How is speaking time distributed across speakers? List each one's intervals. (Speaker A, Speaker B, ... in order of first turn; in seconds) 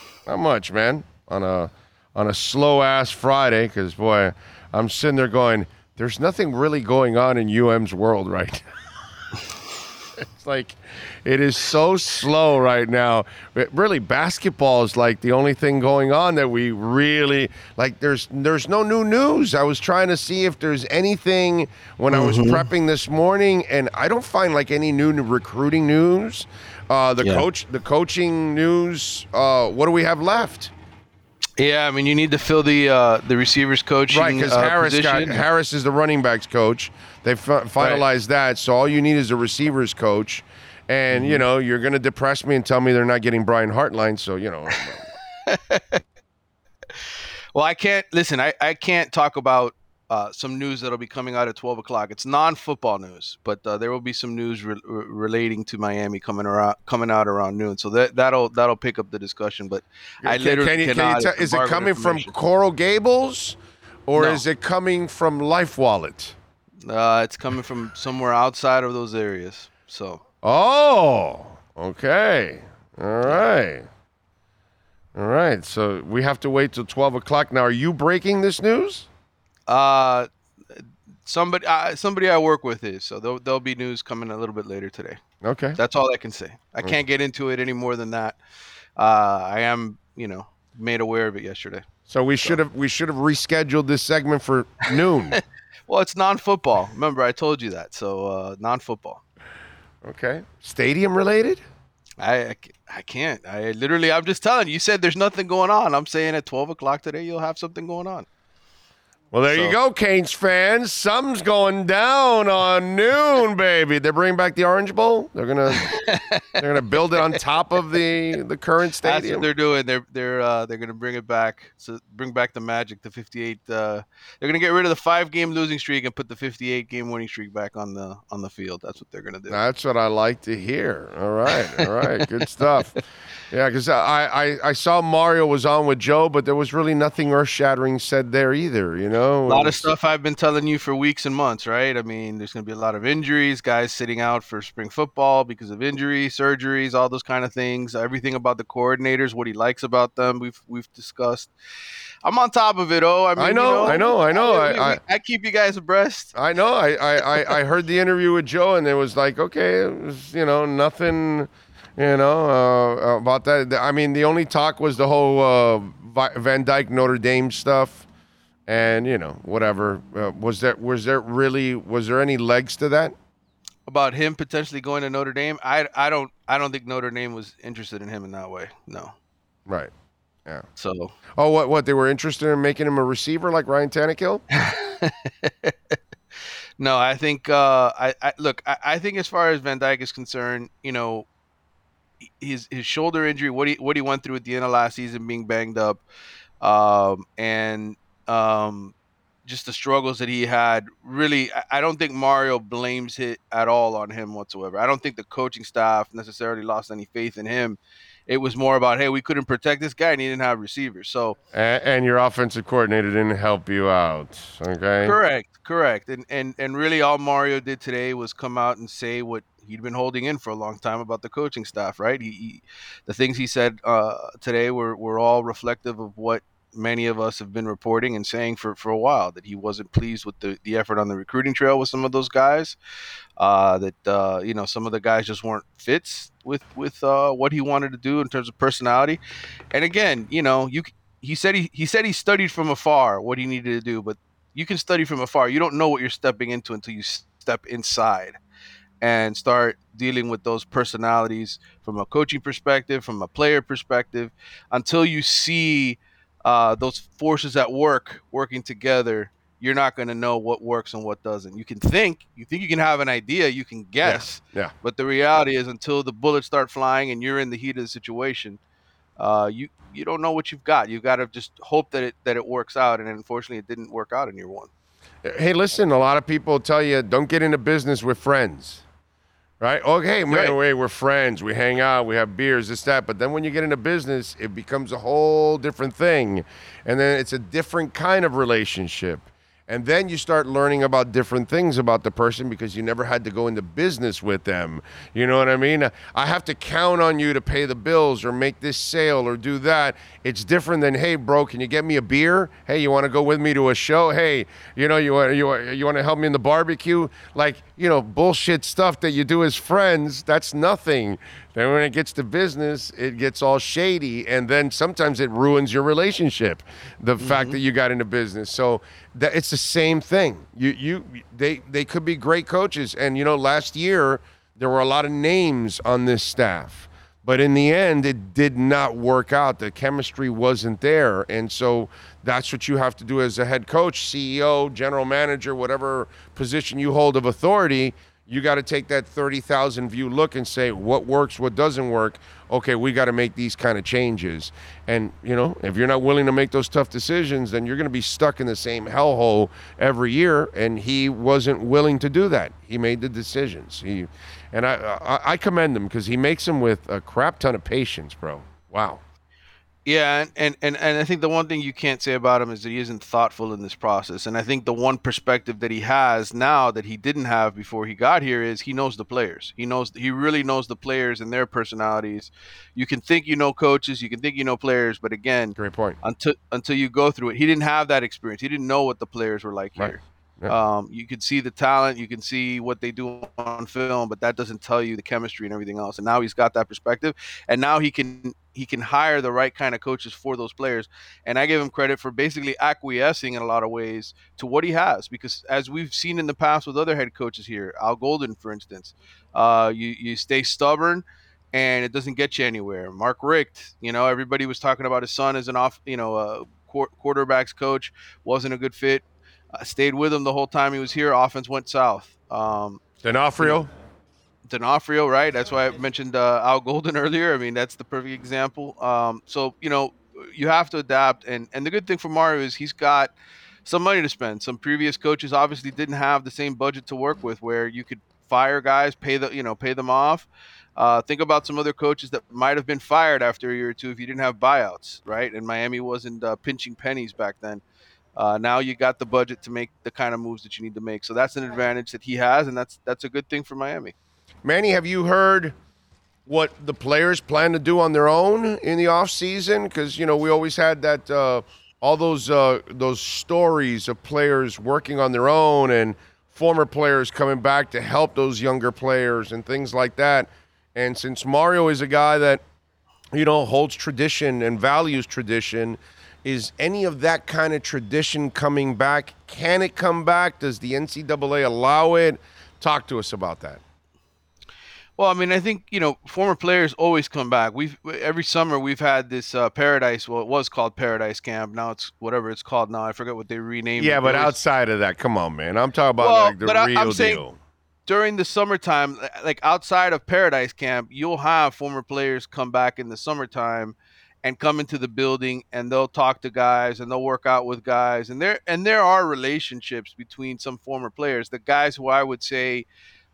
Speaker A: 0.3-8.7, 10.2-30.7, 34.1-45.1, 60.2-66.4, 70.4-73.9, 75.2-79.1, 85.4-85.8, 92.1-95.4, 100.0-101.6, 109.3-116.0, 116.6-119.5, 129.5-139.9, 153.4-155.0, 156.3-168.1, 168.7-173.1, 181.4-184.4, 211.5-215.2, 264.0-264.7, 275.2-278.8, 279.6-359.0, 375.6-376.0, 379.8-380.6, 413.0-413.7, 444.4-445.6, 446.3-462.4, 463.1-473.6, 483.8-487.4
Speaker B: 22.1-22.7, 27.2-27.4, 31.6-35.4, 41.1-41.4, 44.7-46.0, 47.5-62.3, 64.2-64.4, 66.8-70.2, 79.7-85.2, 85.8-88.4, 89.0-91.9, 95.9-99.2, 102.2-108.3, 109.5-109.8, 115.7-117.3, 119.0-129.6, 131.8-132.0, 139.5-151.5, 152.2-156.4, 157.2-157.6, 173.9-179.1, 180.8-181.2, 184.5-186.0, 186.8-191.3, 192.4-196.0, 196.6-198.9, 199.5-211.4, 215.0-232.8, 233.4-239.2, 239.7-248.4, 249.0-268.6, 269.2-274.7, 280.3-280.6, 317.2-317.6, 359.9-409.1, 409.6-412.8, 414.5-423.1, 423.6-437.6, 438.2-443.9, 475.0-484.4, 486.0-487.2, 487.9-502.7